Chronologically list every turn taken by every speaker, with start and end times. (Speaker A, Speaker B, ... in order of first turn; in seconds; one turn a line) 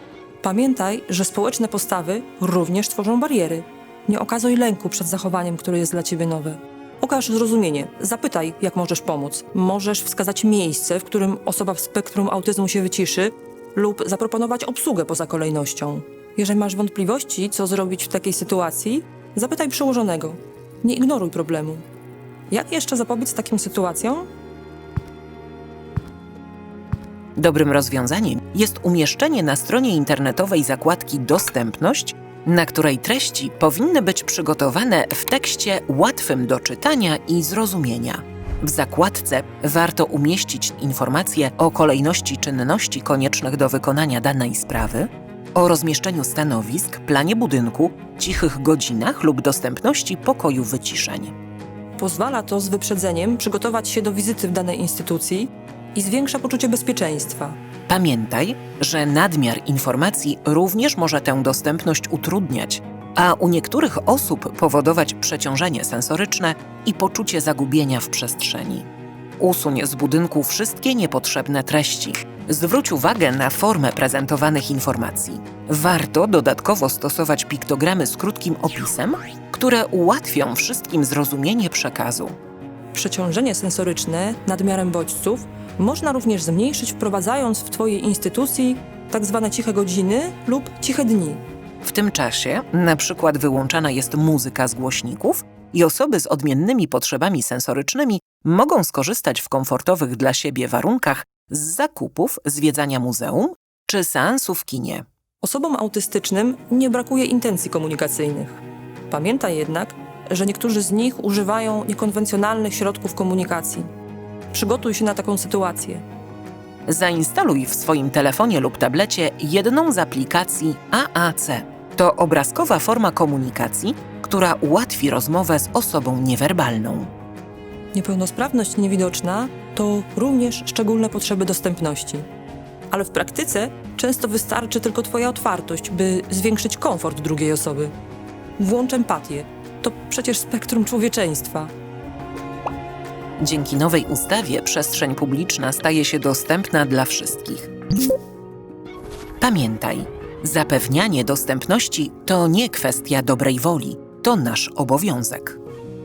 Speaker A: 0.4-21.8
Speaker A: 22.5-24.2
Speaker B: 27.4-51.3
Speaker A: 52.0-57.5
Speaker B: 57.9-68.9
Speaker B: 69.4-82.3
Speaker A: 82.9-91.4
Speaker B: 91.8-105.0
Speaker A: 105.4-113.9
Speaker A: 114.5-116.0
Speaker B: 116.9-127.1
Speaker A: 127.9-132.2
Speaker A: 132.9-137.9
Speaker A: 138.6-141.7
Speaker B: 143.4-147.7
Speaker B: 149.4-155.6